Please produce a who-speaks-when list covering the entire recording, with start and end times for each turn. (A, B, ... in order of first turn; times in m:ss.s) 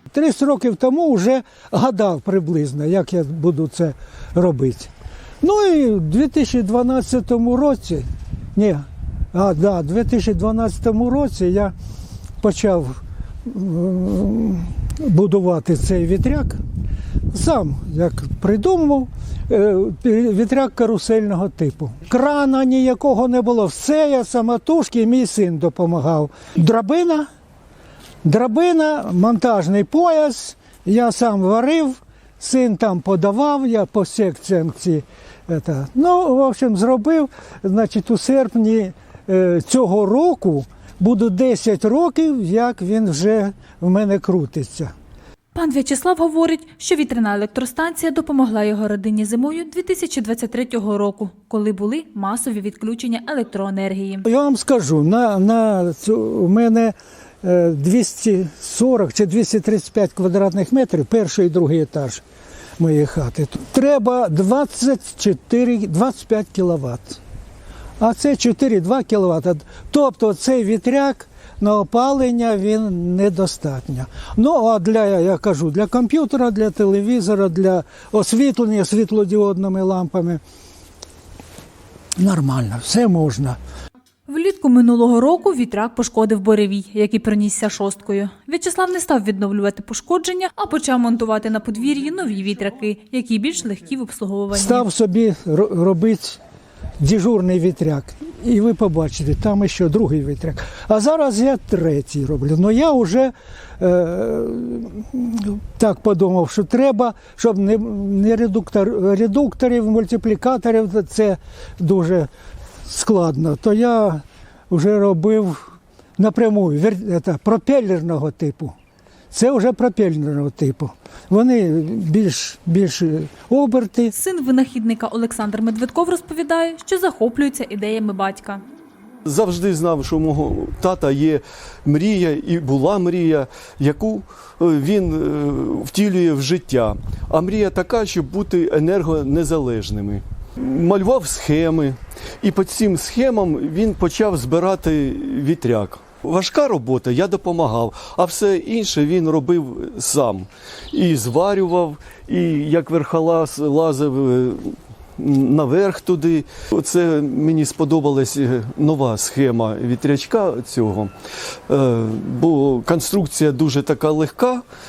0:00.1-0:04.9 A
0:05.4-0:11.7 A
0:12.4-0:16.6 A
0:17.3-0:27.3 A
0:28.2-0:44.9 A
0:45.5-0:54.2 B
0:54.2-1:02.2 A
1:02.8-1:07.2 A
1:08.0-1:20.4 A
1:22.2-1:23.6 A
1:24.3-1:34.8 B
1:34.5-1:36.4 A
1:37.0-1:52.3 A
1:52.8-1:58.7 A
1:59.3-2:04.1 A
2:04.1-2:08.6 B
2:09.2-2:41.1 C
2:41.7-2:44.6 C